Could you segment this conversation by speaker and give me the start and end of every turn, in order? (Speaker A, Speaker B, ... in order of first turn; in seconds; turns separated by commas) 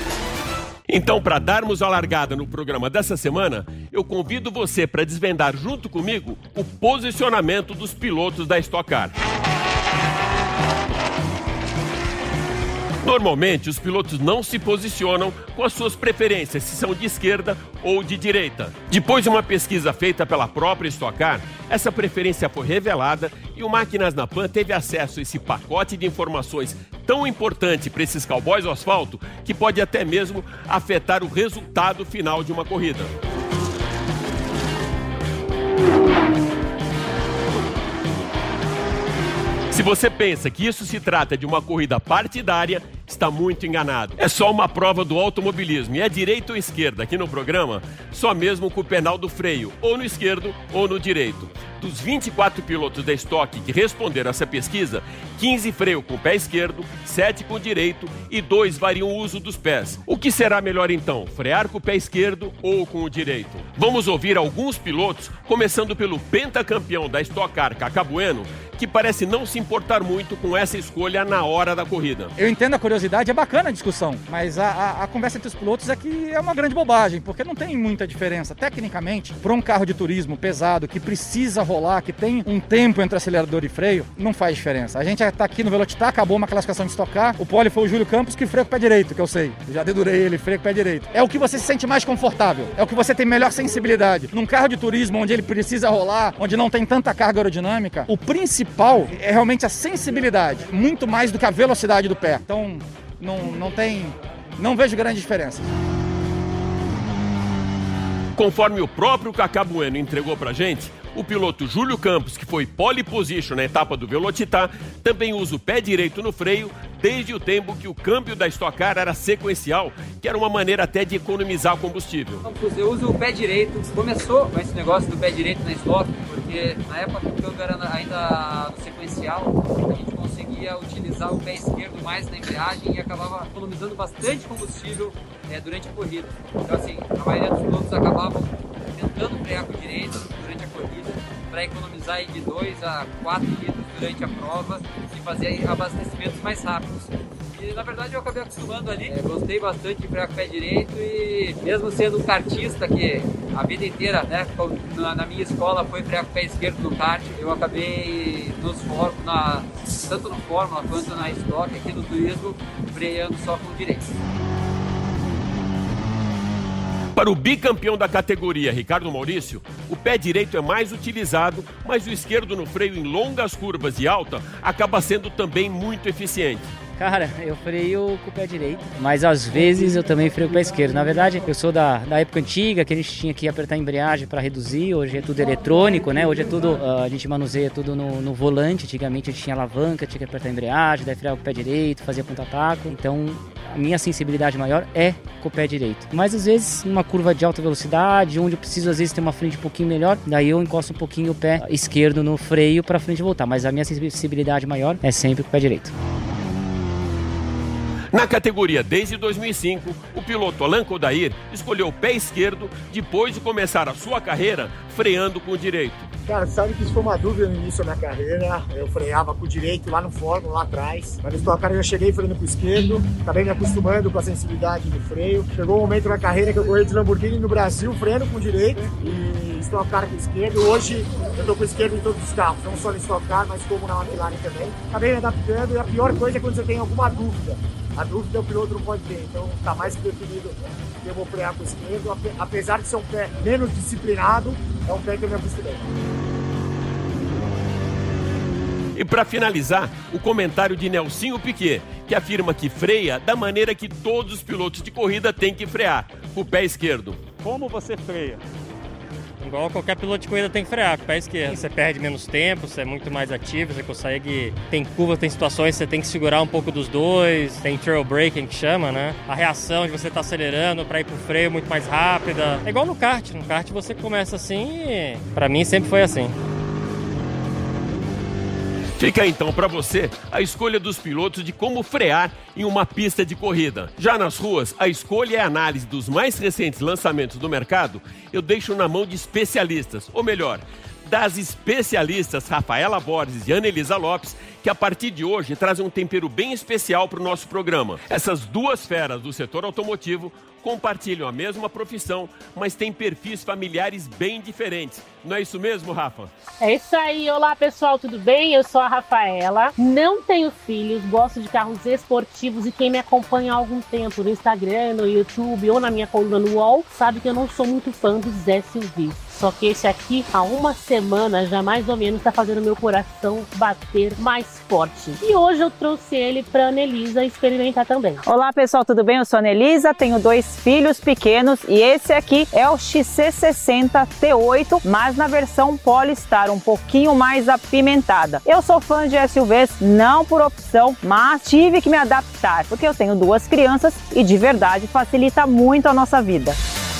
Speaker A: 0.9-9.2, Speaker A: 13.0-33.1, Speaker A: 39.7-72.3, Speaker B: 72.4-105.7, Speaker A: 108.4-122.4, Speaker C: 122.4-164.1, Speaker A: 167.2-176.8, Speaker D: 177.0-205.9, Speaker A: 208.1-216.1, Speaker E: 216.3-245.9, Speaker A: 248.9-257.2, Speaker F: 257.4-258.4, Speaker F: 259.4-276.4, Speaker A: 279.0-306.3, Speaker G: 306.6-328.2, Speaker H: 328.2-346.6